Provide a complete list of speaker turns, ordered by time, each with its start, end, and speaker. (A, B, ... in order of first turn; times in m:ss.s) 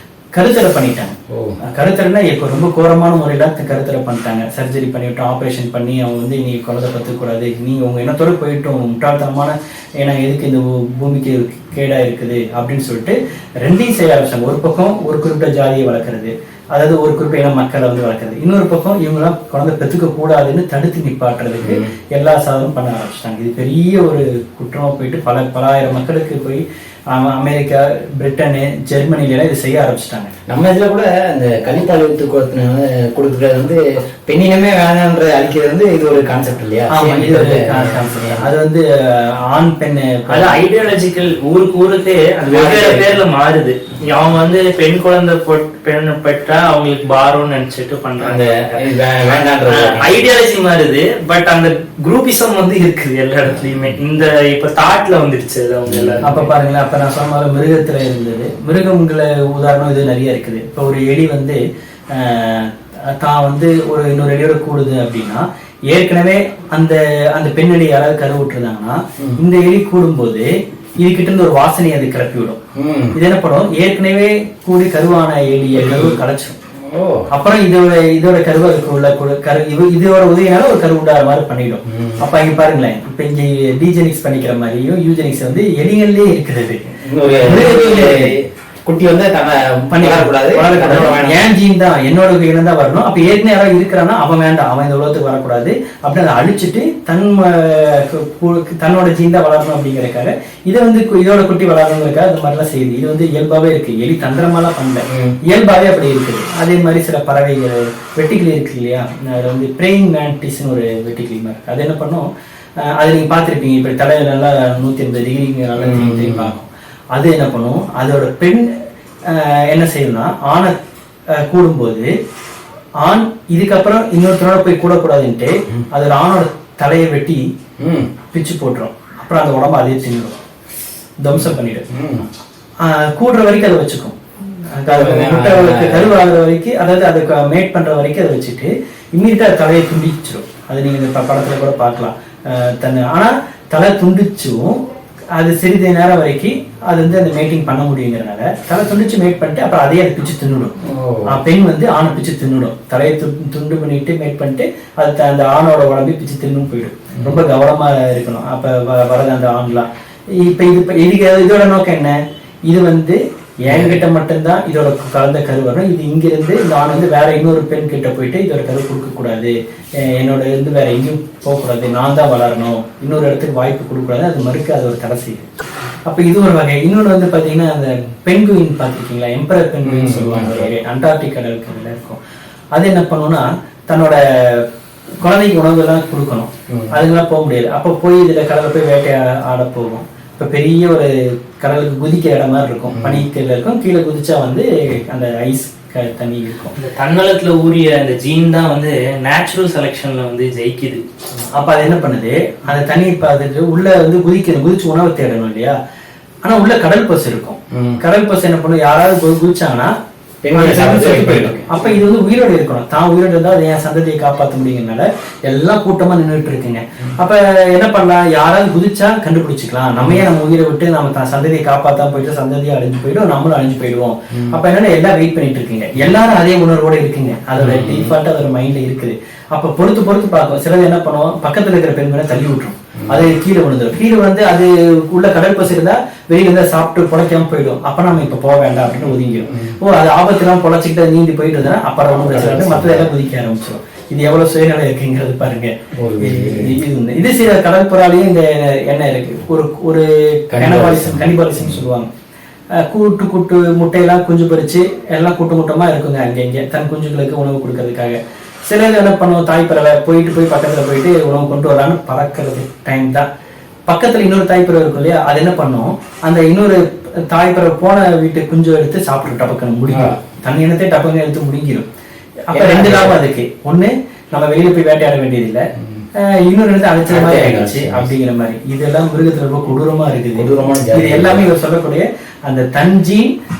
0:00.3-0:30.3 A
0:01.3-0:01.6 B
0:21.6-0:21.9 B
0:30.5-0:38.5 B
0:36.9-0:40.6 A
0:40.3-0:48.8 C
0:42.5-0:43.2 B
0:48.2-0:50.2 B
0:49.7-0:56.5 C
0:55.9-0:56.3 B
0:56.2-1:01.6 A
1:02.1-1:10.5 A
1:11.0-1:12.6 A
1:12.7-1:13.2 B
1:13.1-1:16.6 A
1:15.7-1:16.2 B
1:16.7-1:17.3 B
1:17.3-1:28.3 A
1:21.9-1:22.2 B
1:27.0-1:31.5 B
1:29.9-1:52.2 A
1:45.1-1:45.4 B
1:53.0-1:58.6 A
1:55.8-1:56.5 B
1:59.3-2:00.8 A
2:01.4-2:02.1 A
2:03.0-2:07.4 A
2:07.8-2:08.1 B
2:08.3-2:10.3 A
2:11.2-2:11.8 A
2:11.3-2:12.2 B
2:12.8-2:24.8 A
2:14.9-2:16.2 B
2:25.4-2:30.7 A
2:30.8-2:31.4 B
2:31.3-2:39.9 A
2:40.4-2:42.2 A
2:42.7-2:55.5 A
2:43.7-2:44.0 B
2:56.1-3:02.2 A
2:59.8-3:00.7 B
3:02.7-3:04.6 A
3:05.2-3:16.7 A
3:12.9-3:13.2 B
3:16.8-3:21.0 C
3:21.5-3:25.7 A
3:26.4-3:29.9 A
3:27.7-3:28.0 B
3:30.4-3:32.0 B
3:30.5-4:12.1 A
3:40.0-3:40.2 B
3:44.3-3:44.6 B
3:47.6-3:48.1 B
3:59.5-3:59.8 B
4:02.1-4:03.1 B
4:06.0-4:06.7 B
4:10.5-4:11.8 B
4:12.8-4:23.3 A
4:23.9-4:31.8 A
4:29.9-4:30.2 B
4:32.5-4:35.6 A
4:32.5-4:33.2 B
4:36.2-4:43.3 A
4:37.0-4:38.1 B
4:40.3-4:41.5 B